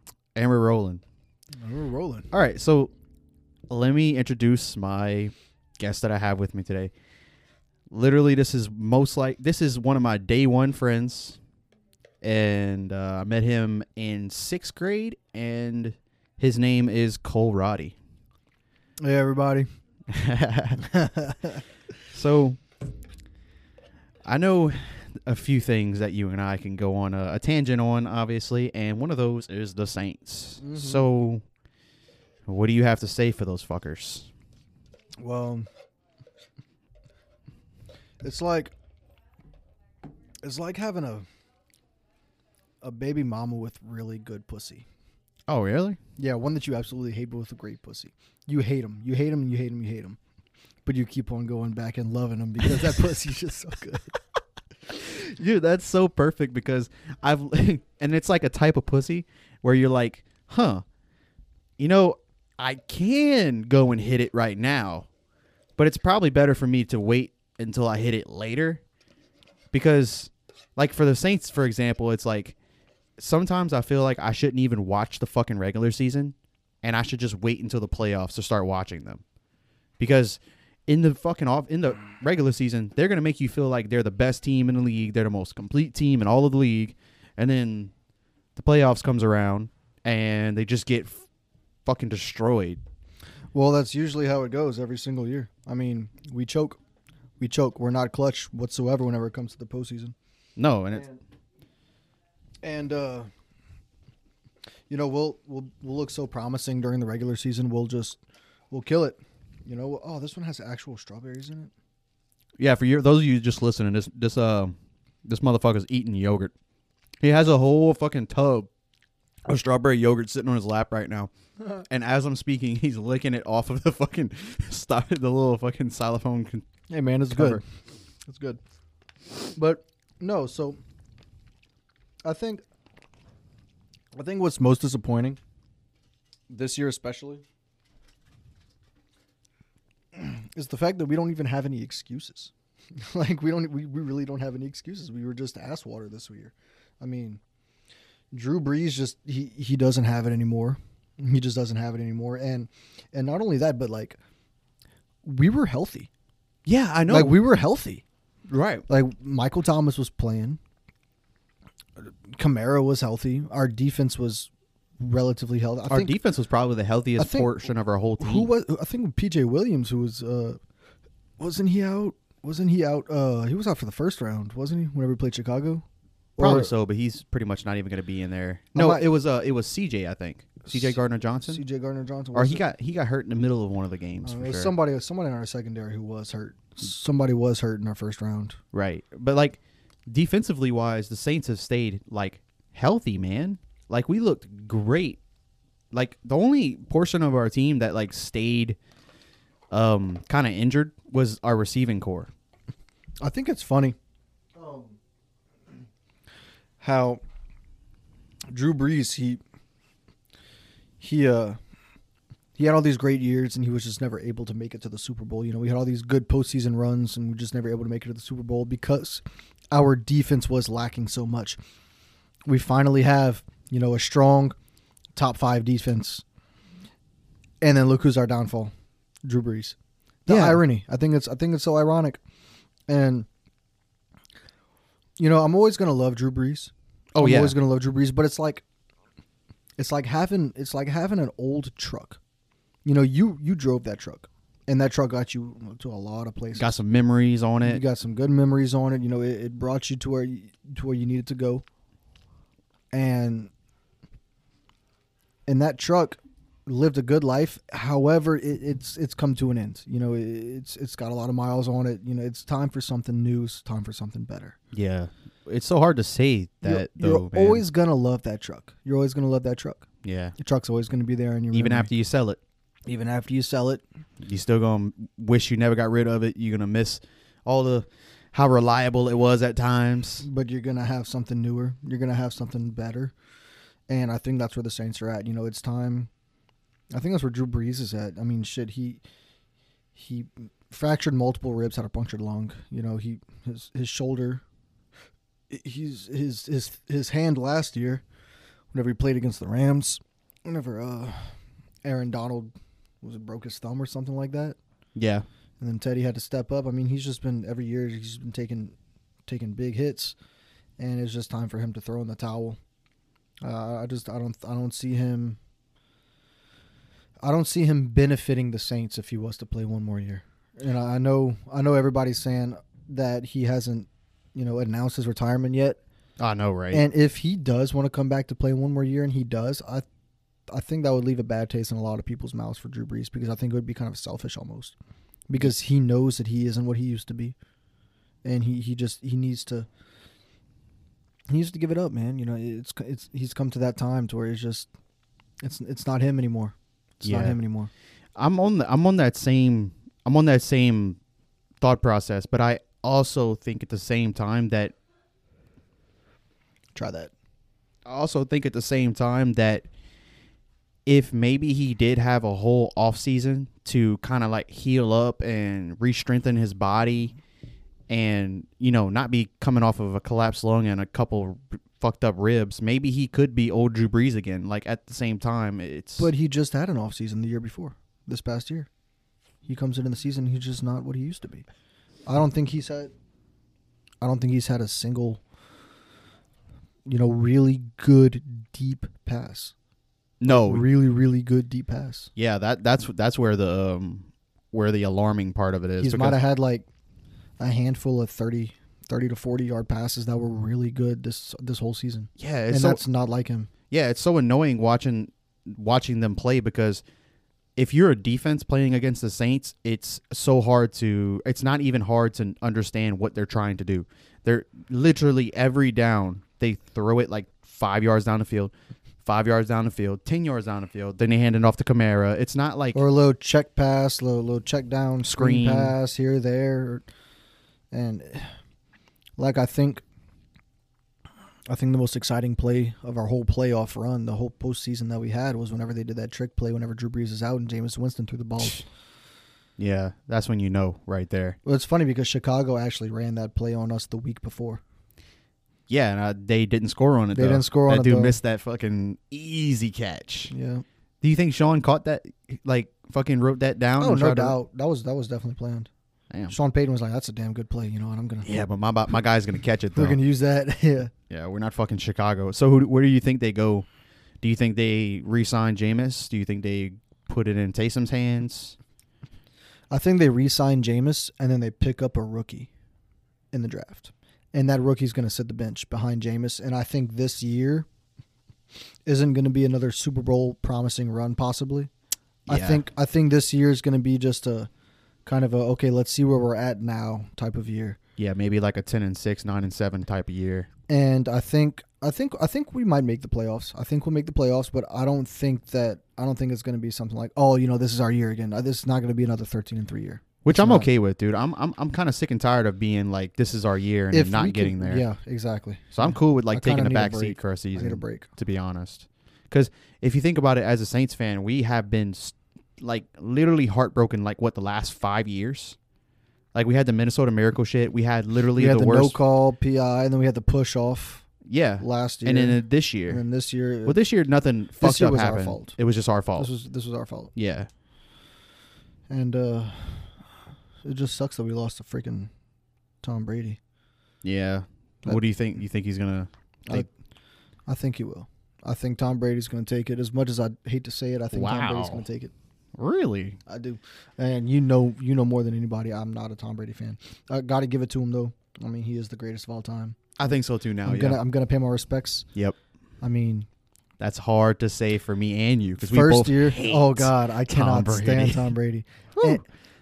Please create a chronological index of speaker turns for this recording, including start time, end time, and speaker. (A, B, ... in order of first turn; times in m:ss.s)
0:00.4-0:01.0 A
0:01.6-0:02.3 B
0:02.3-0:02.9 A
0:03.7-0:06.9 A
0:07.9-0:11.4 A
0:12.2-0:18.0 A
0:19.0-0:19.7 B
0:20.1-0:20.9 A
0:20.8-0:21.6 B
0:22.1-0:22.6 A
0:24.2-0:31.4 A
0:30.6-0:31.1 B
0:32.5-0:34.3 A
0:35.2-0:35.7 B
0:38.2-0:38.7 B
0:40.4-0:41.3 B
0:42.8-0:44.8 B
0:45.5-0:46.0 A
0:46.2-0:50.2 B
0:50.8-0:54.2 B
0:54.9-1:00.8 A
1:01.8-1:05.1 A
1:05.8-1:08.8 A
1:09.7-1:12.6 A
1:13.2-1:19.2 A
1:20.0-1:27.9 A
1:28.6-1:31.3 A
1:31.9-1:32.8 A
1:33.5-1:36.8 B
1:37.4-1:40.1 B
1:40.6-1:41.1 A
1:42.6-1:43.3 B
1:44.9-1:48.2 B
1:48.7-1:51.7 B
1:52.6-1:56.5 A
1:57.2-1:58.7 A
1:59.4-2:01.3 A
2:01.9-2:06.6 A
2:06.9-2:07.6 B
2:07.3-2:07.6 A
2:08.3-2:08.6 B
2:09.6-2:10.8 B
2:12.2-2:12.6 B
2:14.2-2:15.4 B
2:16.5-2:17.4 B
2:20.1-2:27.4 B
2:28.3-2:34.2 B
2:35.2-2:36.1 B
2:36.6-2:37.4 A
2:37.1-2:38.0 B
2:38.5-2:38.8 A
2:38.9-2:40.6 B
2:42.0-2:46.2 B
2:45.9-2:48.5 A
2:47.2-2:47.6 B
2:48.2-2:50.6 B
2:51.4-2:55.8 B
2:56.4-2:56.7 B
2:56.4-3:01.6 A
2:58.7-2:59.0 B
3:00.7-3:00.9 B
3:01.5-3:02.6 B
3:02.3-3:04.7 A
3:04.2-3:08.6 B
3:08.7-3:09.6 A
3:10.1-3:15.2 A
3:15.9-3:18.8 A
3:19.7-3:22.3 A
3:23.2-3:24.0 B
3:24.6-3:25.0 B
3:26.8-3:27.2 B
3:28.5-3:29.4 B
3:31.0-3:31.6 B
3:32.6-3:41.6 B
3:42.5-3:44.6 B
3:45.2-3:46.2 B
3:47.6-3:48.7 B
3:49.2-3:52.2 B
3:50.3-3:50.6 A
3:52.9-3:53.3 B
3:55.2-3:58.6 B
3:57.2-3:57.6 A
3:59.8-4:02.2 B
4:02.8-4:06.8 B
4:06.6-4:07.8 A
4:07.6-4:11.6 B
4:12.9-4:13.5 B
4:15.5-4:24.6 B
4:24.7-4:27.6 A
4:26.6-4:29.9 B
4:30.0-4:30.4 A
4:30.4-4:31.9 B
4:31.5-4:32.4 A
4:32.9-4:33.8 B
4:34.2-4:40.2 A
4:40.2-4:43.1 B
4:43.9-4:46.1 B
4:46.9-4:49.0 B
4:49.9-4:54.4 B
4:55.5-4:58.0 B
4:58.7-5:04.6 B
5:05.0-5:05.2 A
5:05.6-5:08.8 B
5:09.3-5:10.2 B
5:10.8-5:12.6 B
5:13.4-5:15.4 B
5:17.2-5:25.8 B
5:26.2-5:26.8 A
5:26.7-5:29.8 B
5:30.5-5:34.8 B
5:35.3-5:37.4 B
5:38.2-5:39.7 B
5:41.3-5:44.7 B
5:45.4-5:47.7 B
5:47.0-5:47.4 A
5:48.2-5:51.0 A
5:51.6-5:54.7 A
5:56.8-5:57.1 B
5:57.8-5:59.7 A
6:00.9-6:07.2 A
6:07.9-6:16.1 A
6:16.0-6:18.7 B
6:19.5-6:21.5 B
6:22.1-6:22.9 B
6:24.0-6:25.2 B
6:26.9-6:29.5 B
6:30.2-6:30.6 A
6:30.2-6:32.1 B
6:32.2-6:36.2 A
6:35.8-6:36.7 B
6:37.4-6:43.5 B
6:42.2-6:42.8 A
6:43.7-6:46.8 A
6:47.6-6:58.5 A
6:59.0-7:02.8 A
7:02.7-7:06.8 B
7:05.0-7:05.8 A
7:07.7-7:08.4 B
7:09.2-7:09.8 B
7:11.5-7:18.7 B
7:19.6-7:21.4 A
7:21.4-7:24.6 B
7:25.7-7:30.3 A
7:27.1-7:28.2 B
7:30.3-7:30.6 B
7:31.0-7:34.4 A
7:33.8-7:35.7 B
7:36.3-7:38.3 B
7:38.2-7:40.0 A
7:39.8-7:40.9 B
7:41.1-7:43.7 A
7:44.2-7:48.6 A
7:49.7-7:52.5 B
7:53.3-7:57.7 B
7:58.9-8:01.7 B
8:02.3-8:02.6 A
8:02.3-8:04.5 B
8:05.1-8:07.8 B
8:08.0-8:10.5 A
8:10.7-8:20.7 B
8:20.2-8:24.8 A
8:23.9-8:28.1 B
8:25.7-8:35.6 A
8:36.3-8:39.0 A
8:38.4-8:41.1 B
8:41.2-8:43.0 A
8:41.6-8:43.8 B
8:43.6-8:46.3 A
8:44.6-8:45.5 B
8:46.2-8:47.1 B
8:47.2-8:47.5 A
8:48.9-8:50.0 B
8:50.6-8:52.1 B
8:52.8-8:53.4 B
8:54.0-8:56.7 A
8:57.5-9:02.1 B
9:01.1-9:01.8 A
9:02.5-9:03.2 A
9:03.3-9:09.8 B
9:10.0-9:11.0 A
9:10.6-9:12.1 B
9:12.8-9:13.3 B
9:13.8-9:18.3 A
9:15.6-9:19.2 B
9:19.0-9:19.2 A